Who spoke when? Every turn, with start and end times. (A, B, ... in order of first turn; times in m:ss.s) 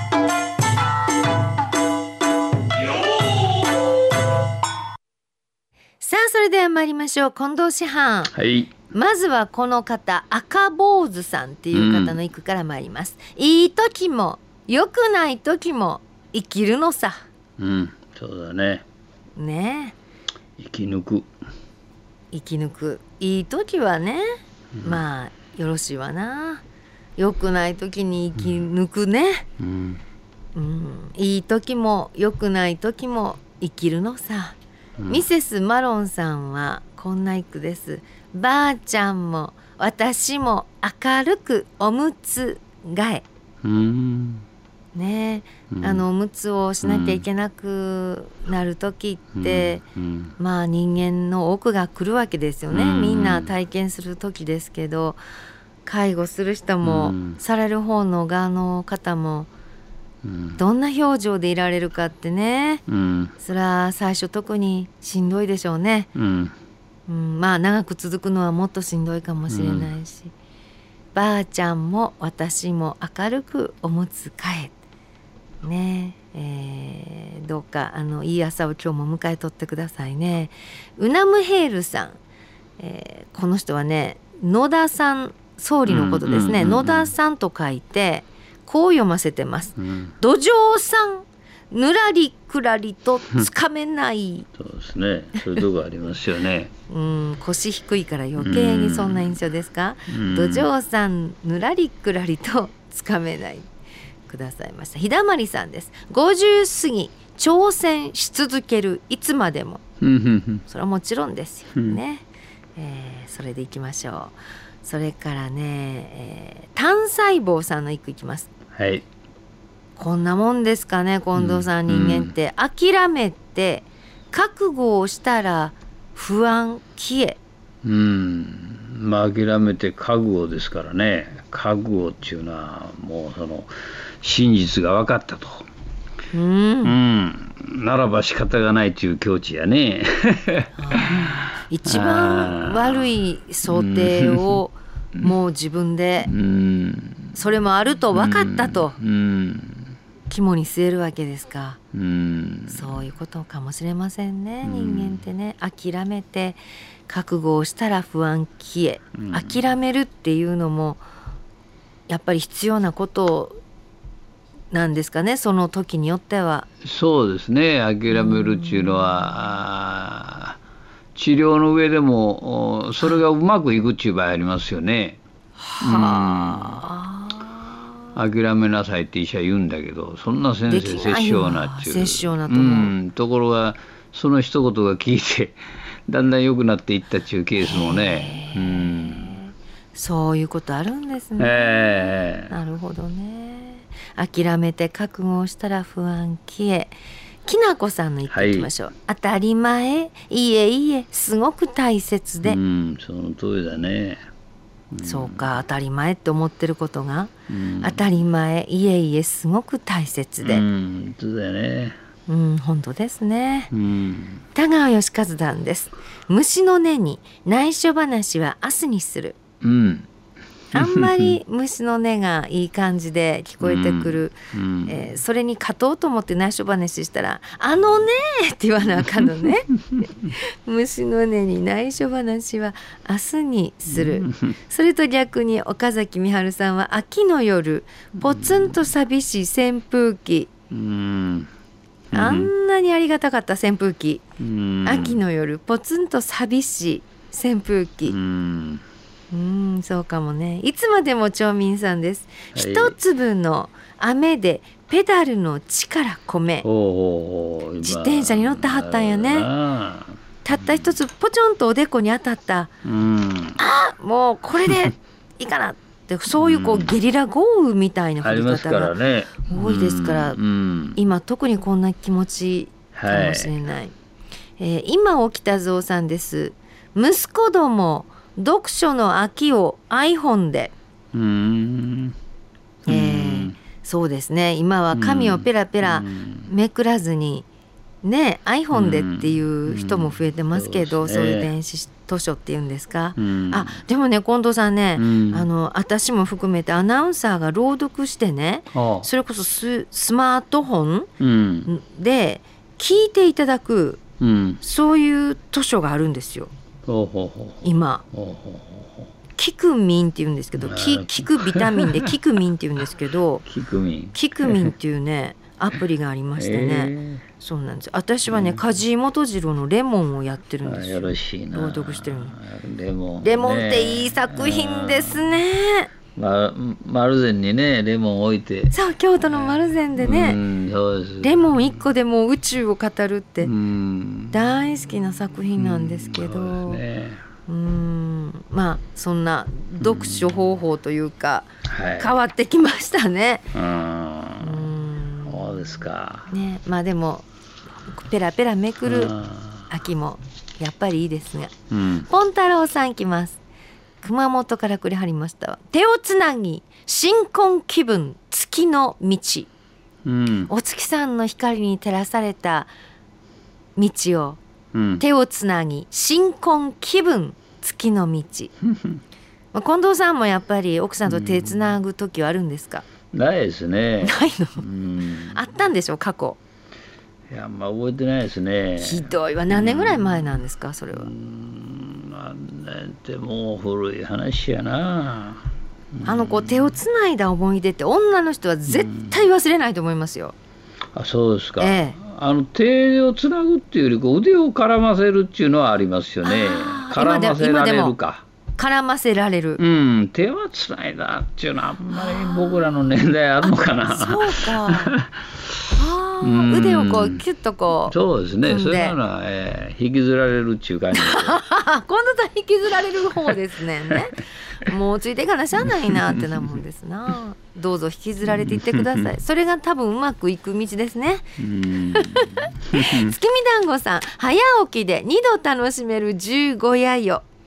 0:06.0-0:08.3 A
0:08.3-0:08.7 B
0:08.9-0:17.2 A
0:11.7-0:12.2 B
0:17.6-0:18.8 B
0:19.4-0:20.0 A
0:20.6-0:21.3 B
0:22.3-0:24.2 A
0:24.8-0:25.0 B
0:24.8-0:26.6 A
0:27.2-0:29.5 A
0:29.6-0:30.0 B
0:30.5-0:34.6 A
0:35.0-0:35.2 B
0:35.1-0:43.2 A
0:43.6-0:44.4 B
0:45.0-0:49.8 A
0:45.7-0:46.0 B
0:46.8-0:47.2 B
0:49.4-0:50.3 B
0:50.4-0:55.2 A
0:52.7-0:53.5 B
0:55.9-0:59.5 A
0:56.8-0:57.4 B
1:00.2-1:00.6 B
1:00.6-1:02.8 A
1:02.9-1:03.3 B
1:03.4-1:06.1 A
1:06.2-1:06.6 B
1:07.1-1:10.3 A
1:09.5-1:09.9 B
1:11.1-1:14.7 A
1:15.6-1:22.2 A
1:22.8-1:34.5 A
1:25.9-1:27.1 B
1:29.8-1:30.1 B
1:34.6-1:36.7 B
1:36.9-1:43.7 A
1:38.4-1:39.4 B
1:40.1-1:40.7 B
1:44.3-1:49.8 A
1:50.0-1:50.6 B
1:50.7-1:58.5 A
1:58.7-1:59.0 B
2:00.0-2:07.4 A
2:01.4-2:02.4 B
2:07.8-2:15.7 B
2:16.3-2:17.0 A
2:16.8-2:23.1 B
2:20.8-2:26.3 A
2:23.6-2:24.6 B
2:26.3-2:27.4 B
2:27.3-2:29.0 A
2:28.1-2:30.0 B
2:30.3-2:31.8 A
2:31.9-2:33.0 B
2:32.7-2:41.0 A
2:34.6-2:35.2 B
2:39.2-2:39.6 B
2:42.1-2:43.6 A
2:44.7-2:46.7 A
2:46.8-2:50.6 B
2:48.1-2:49.4 A
2:51.1-2:55.2 B
2:55.6-2:58.0 A
2:55.8-2:56.8 B
2:58.1-3:09.4 B
3:00.7-3:02.9 A
3:07.6-3:16.9 A
3:11.4-3:12.5 B
3:17.4-3:22.6 A
3:18.3-3:18.7 B
3:22.4-3:24.3 B
3:24.9-3:25.6 B
3:25.0-3:30.6 A
3:27.5-3:28.0 B
3:30.4-3:32.0 B
3:32.3-3:33.7 A
3:33.7-3:34.4 B
3:34.5-3:39.4 A
3:39.6-3:40.1 B
3:40.7-3:41.4 B
3:40.7-3:44.3 A
3:43.6-3:45.1 B
3:44.8-4:00.5 A
3:53.9-3:54.6 B
3:58.2-3:58.9 B
4:00.7-4:01.5 B
4:02.1-4:02.5 B
4:02.1-4:04.2 A
4:04.4-4:05.2 B
4:04.8-4:08.1 A
4:08.0-4:08.8 B
4:09.3-4:16.7 A
4:12.5-4:13.0 B
4:16.6-4:21.0 B
4:17.8-4:19.5 A
4:20.4-4:22.7 A
4:22.8-4:23.6 B
4:23.6-4:30.4 A
4:26.4-4:27.0 B
4:28.2-4:31.0 B
4:31.0-4:33.9 A
4:32.9-4:33.5 B
4:34.6-4:40.7 A
4:41.1-4:42.2 B
4:42.8-4:43.6 B
4:42.9-4:47.5 A
4:44.9-4:46.5 B
4:48.0-5:01.1 A
4:48.7-4:51.5 B
4:53.2-4:53.8 B
4:55.0-4:55.5 B
4:58.7-4:59.1 B
5:01.2-5:01.7 B
5:01.7-5:04.0 A
5:04.2-5:04.6 B
5:04.6-5:06.5 A
5:06.9-5:09.1 B
5:07.6-5:08.0 A
5:09.4-5:13.4 A
5:10.6-5:12.1 B
5:13.4-5:14.7 B
5:14.1-5:22.4 A
5:16.4-5:17.2 B
5:18.3-5:18.6 B
5:20.6-5:25.4 B
5:23.2-5:25.9 A
5:26.2-5:31.6 B
5:28.7-5:30.4 A
5:31.2-5:33.5 A
5:33.4-5:34.7 B
5:34.3-5:36.8 A
5:35.6-5:37.2 B
5:37.5-5:43.5 A
5:39.8-5:40.5 B
5:41.7-5:42.1 B
5:43.5-5:44.7 B
5:44.4-5:47.3 A
5:45.2-5:46.3 B
5:47.9-5:49.2 A
5:48.9-5:49.7 B
5:49.7-5:51.5 A
5:51.7-5:52.1 B
5:52.1-5:53.4 A
5:54.0-5:59.5 A
6:00.0-6:00.5 B
6:00.5-6:02.7 A
6:03.8-6:04.4 A
6:04.7-6:05.0 B
6:05.0-6:08.5 A
6:09.5-6:12.9 A
6:11.1-6:11.8 B
6:13.1-6:15.4 B
6:14.0-6:14.6 A
6:15.3-6:16.4 A
6:17.3-6:26.8 B
6:18.8-6:21.1 A
6:26.0-6:30.4 A
6:28.7-6:29.3 B
6:30.9-6:38.2 B
6:31.6-6:32.0 A
6:36.2-6:38.0 A
6:38.6-6:39.6 A
6:39.6-6:45.6 B
6:41.9-6:42.8 A
6:43.4-6:45.0 A
6:45.7-6:49.0 A
6:46.2-6:47.2 B
6:47.9-6:51.4 B
6:50.9-7:07.2 A
6:55.7-6:56.2 B
6:58.2-6:59.0 B
7:01.4-7:03.2 B